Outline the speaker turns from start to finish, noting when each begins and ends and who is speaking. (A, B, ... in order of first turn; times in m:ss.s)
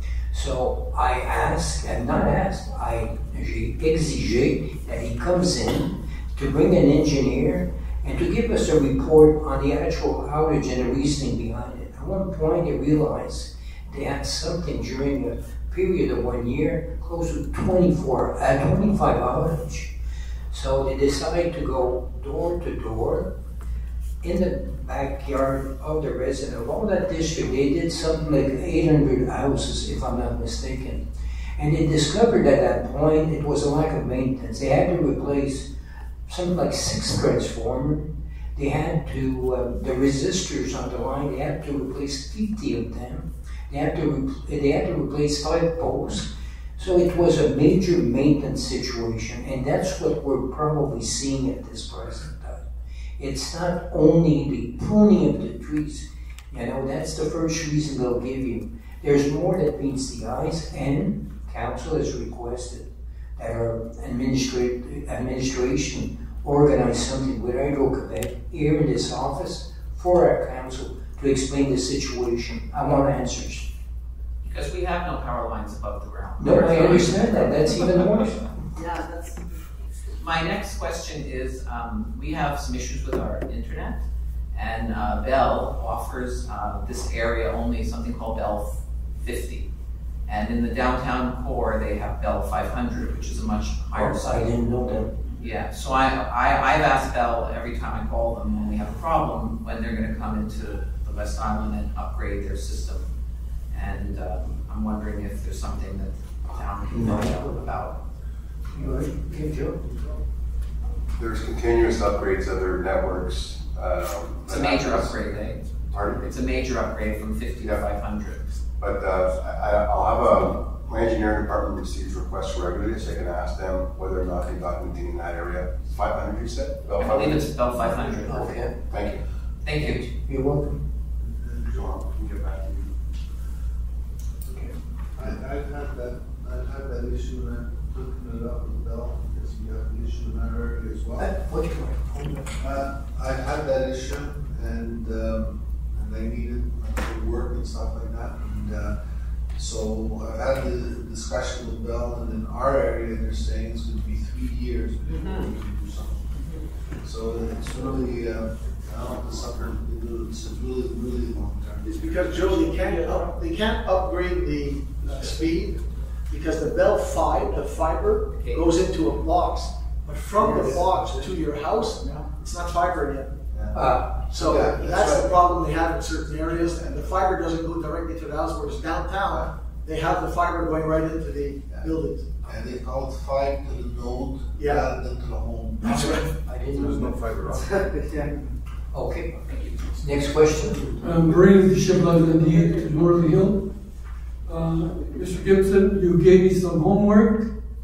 0:00.3-0:19.9 A
0:20.5-0:23.3 A
0:24.2-0:31.0 A
0:31.6-0:35.7 A
0:36.3-0:52.6 A
0:53.2-1:13.7 A
1:14.4-1:18.6 B
1:16.4-1:18.3 A
1:16.9-1:17.3 C
1:20.2-1:24.0 B
1:24.5-1:29.7 B
1:30.2-1:34.5 B
1:33.9-1:35.1 A
1:35.4-1:43.0 B
1:43.7-1:48.0 B
1:46.9-1:47.5 A
1:48.7-1:49.8 A
1:51.2-1:56.2 D
1:54.5-1:58.4 B
1:57.6-1:57.8 D
1:58.8-2:07.5 D
2:07.0-2:08.7 B
2:07.8-2:08.7 A
2:08.9-2:09.2 D
2:09.6-2:10.1 B
2:09.8-2:10.8 A
2:11.2-2:11.8 E
2:11.7-2:12.9 D
2:15.1-2:21.3 E
2:21.2-2:22.5 A
2:22.6-2:28.9 E
2:29.6-2:36.3 E
2:35.1-2:35.5 B
2:37.0-2:42.8 E
2:41.9-2:53.3 F
2:48.4-2:48.7 B
2:50.4-2:51.1 A
2:53.7-2:54.2 A
2:54.3-3:02.5 F
3:02.5-3:05.8 E
3:04.5-3:04.9 F
3:05.8-3:07.8 A
3:05.8-3:06.2 F
3:06.7-3:07.7 D
3:08.9-3:11.0 A
3:11.0-3:13.7 C
3:14.4-3:17.5 C